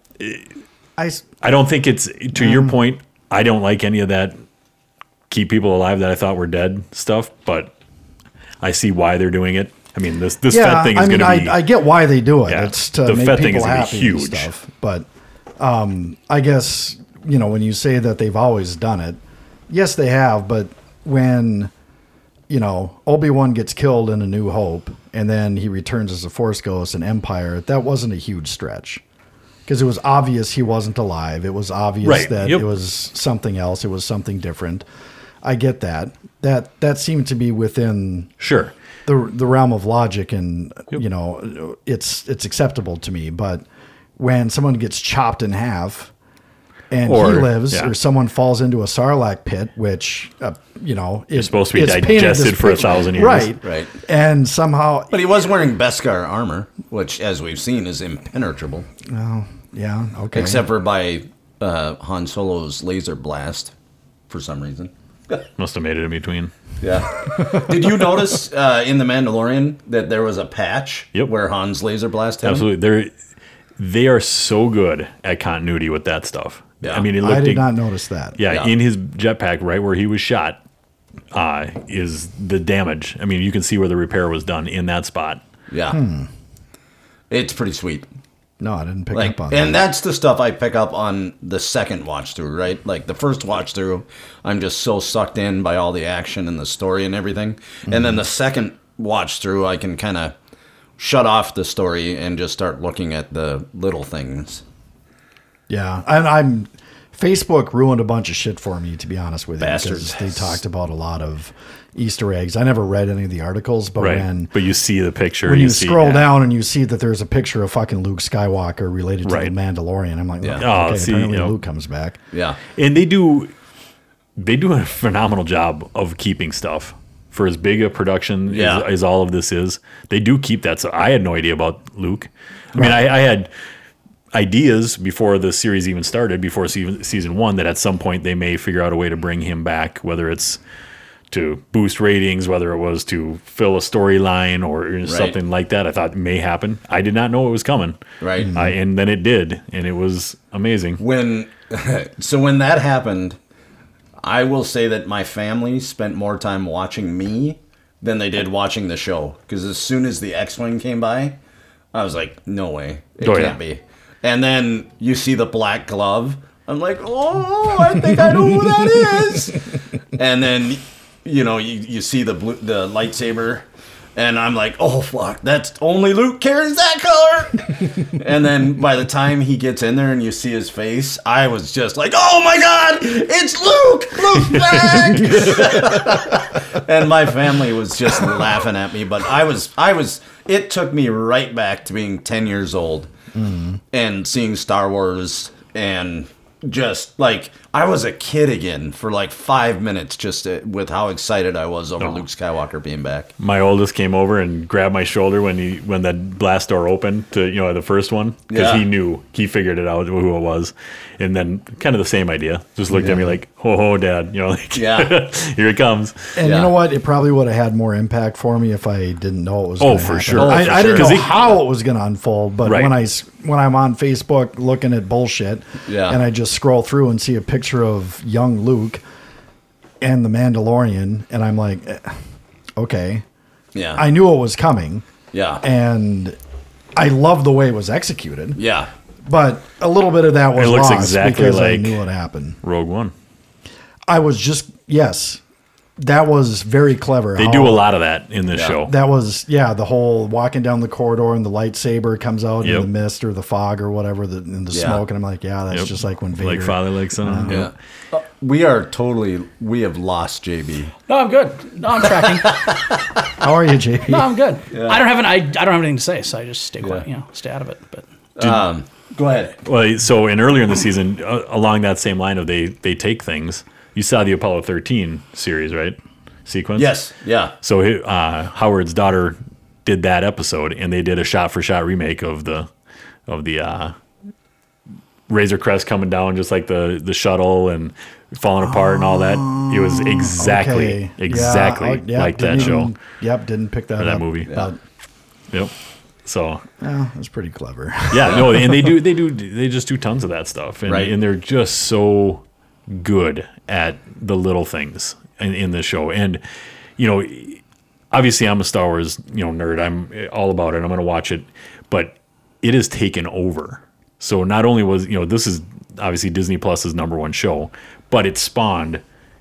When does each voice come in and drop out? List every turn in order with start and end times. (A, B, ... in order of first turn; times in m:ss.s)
0:00.2-0:00.4 A
0:01.0-0:01.2 B
0:01.4-0:04.4 A
0:02.3-0:02.7 B
0:05.3-0:07.7 A
0:08.6-0:11.6 A
0:10.5-0:15.1 B
0:12.5-0:14.5 A
0:15.6-0:21.7 B
0:22.5-0:29.0 B
0:29.6-0:34.8 B
0:32.0-0:32.6 A
0:35.4-0:38.3 B
0:38.4-0:38.7 A
0:39.0-0:43.6 B
0:44.2-0:46.1 B
0:46.9-0:55.2 B
0:47.0-0:47.9 A
0:51.3-0:53.5 A
0:53.6-0:53.9 C
0:55.1-0:58.9 C
0:59.0-1:00.6 B
1:00.3-1:03.7 C
1:04.3-1:05.4 C
1:05.6-1:06.5 A
1:06.8-1:12.7 C
1:12.4-1:13.1 A
1:13.8-1:17.7 A
1:17.2-1:18.4 B
1:18.4-1:20.6 A
1:21.3-1:25.4 A
1:25.7-1:26.0 C
1:25.9-1:26.3 B
1:27.3-1:28.1 C
1:28.6-1:29.8 B
1:29.1-1:40.4 C
1:37.9-1:38.2 B
1:41.0-1:44.6 C
1:45.7-1:54.5 B
1:49.6-1:50.6 C
1:54.0-1:56.3 A
1:55.4-2:02.2 B
1:59.2-1:59.5 A
2:00.6-2:01.5 A
2:02.3-2:02.6 C
2:02.7-2:03.5 A
2:04.4-2:13.5 A
2:08.5-2:08.8 C
2:14.3-2:20.6 A
2:21.3-2:31.0 A
2:25.0-2:25.4 C
2:28.2-2:28.5 C
2:28.4-2:28.7 B
2:31.0-2:33.4 C
2:34.2-2:41.4 C
2:41.9-3:13.1 C
2:43.2-2:43.6 A
3:13.4-3:13.8 B
3:13.9-3:23.3 C
3:23.4-3:36.4 A
3:28.5-3:28.8 C
3:32.9-3:33.2 B
3:34.7-3:35.1 C
3:36.4-3:49.0 B
3:36.4-3:36.7 C
3:39.8-3:41.5 A
3:40.4-3:41.5 C
3:42.6-3:42.9 A
3:45.9-3:46.2 C
3:50.0-3:52.2 B
3:52.8-3:53.2 B
3:53.7-3:54.0 C
3:53.9-3:55.0 B
3:55.3-3:55.6 C
3:55.6-3:56.4 B
3:57.0-3:58.6 B
3:58.6-3:58.9 C
3:59.2-4:02.6 B
4:00.6-4:02.0 A
4:02.6-4:03.1 A
4:04.1-4:05.4 B
4:06.0-4:07.8 B
4:07.4-4:08.9 A
4:08.5-4:08.8 C
4:08.8-4:17.6 B
4:12.6-4:12.9 A
4:14.7-4:15.0 C
4:15.7-4:17.7 A
4:17.5-4:20.9 C
4:21.1-4:22.6 D
4:22.2-4:23.0 C
4:23.4-4:24.3 B
4:24.0-4:28.0 D
4:24.7-4:25.1 C
4:28.4-4:29.6 C
4:29.6-4:37.0 A
4:36.8-4:37.5 C
4:37.6-4:42.7 A
4:43.3-4:43.9 A
4:45.3-4:52.9 A
4:48.6-4:54.8 B
4:54.0-4:54.5 A
4:56.2-4:56.6 A
4:56.8-4:58.9 B
4:58.1-5:06.4 A
5:00.9-5:01.1 C
5:07.0-5:19.0 A